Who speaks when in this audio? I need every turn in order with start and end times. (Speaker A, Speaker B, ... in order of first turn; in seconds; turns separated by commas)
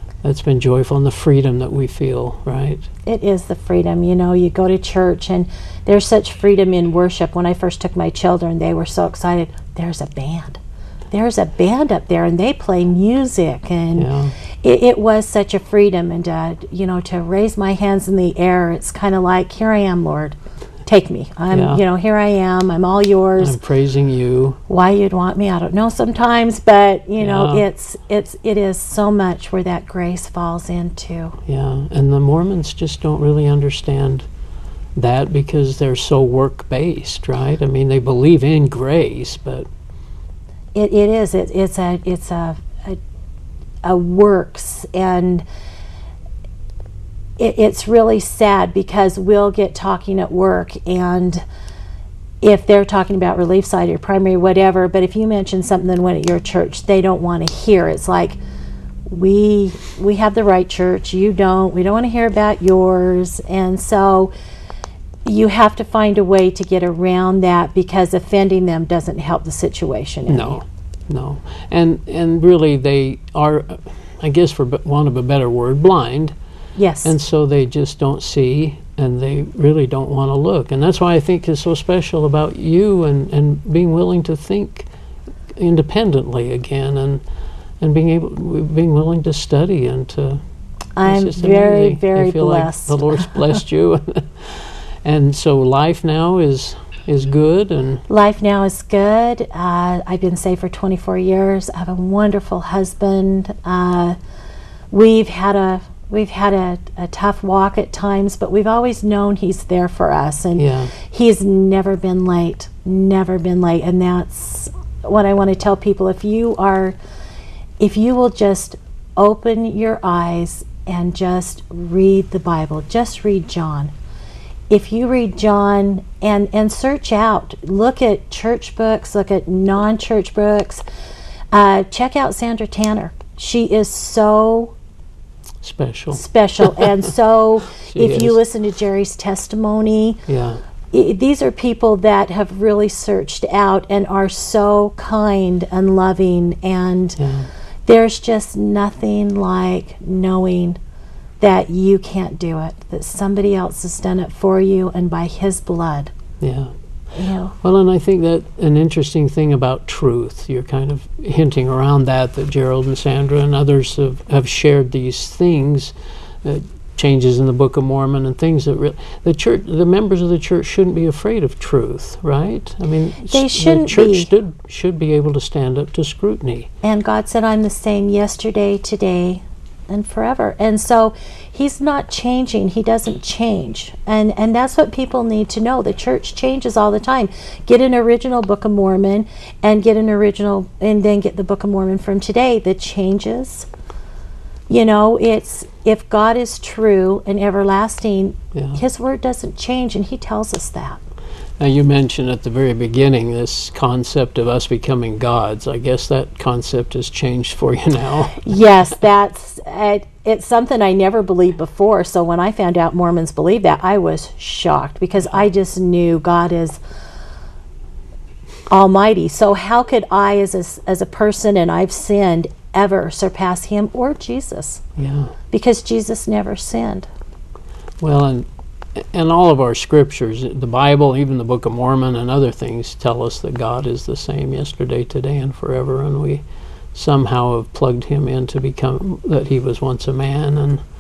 Speaker A: 0.2-2.9, Speaker B: 3.1-10.6, Speaker B: 11.1-14.1, Speaker A: 13.9-14.3, Speaker B: 14.6-23.6, Speaker A: 21.5-21.8, Speaker A: 23.4-24.6, Speaker B: 24.7-31.4, Speaker A: 27.2-27.7, Speaker A: 31.5-34.3, Speaker A: 35.0-39.7, Speaker B: 40.8-43.0, Speaker B: 43.8-45.4, Speaker B: 47.4-51.4, Speaker B: 52.4-58.4, Speaker B: 59.1-64.3, Speaker B: 65.2-70.6, Speaker A: 70.3-76.3, Speaker B: 76.8-77.2, Speaker A: 77.0-84.9, Speaker A: 85.5-87.2, Speaker A: 87.8-90.4, Speaker B: 91.0-93.3, Speaker A: 91.0-98.0, Speaker B: 98.1-104.2, Speaker B: 104.9-117.0, Speaker A: 110.6-110.9, Speaker B: 117.8-123.9, Speaker B: 124.7-130.8, Speaker B: 131.5-134.7, Speaker A: 135.6-137.0, Speaker B: 136.1-140.2, Speaker A: 137.8-138.4, Speaker A: 140.3-140.6, Speaker B: 140.9-147.2, Speaker A: 147.2-147.5, Speaker B: 147.9-150.8, Speaker B: 151.4-156.1, Speaker A: 156.4-156.7, Speaker B: 157.2-157.5, Speaker A: 157.6-176.7, Speaker B: 173.2-174.3, Speaker B: 176.8-193.7, Speaker B: 194.7-201.0, Speaker A: 198.5-198.8, Speaker A: 201.6-208.5, Speaker B: 208.3-216.8, Speaker B: 218.7-224.8, Speaker A: 225.0-225.3, Speaker B: 225.5-227.1, Speaker A: 228.0-236.4, Speaker A: 236.9-240.8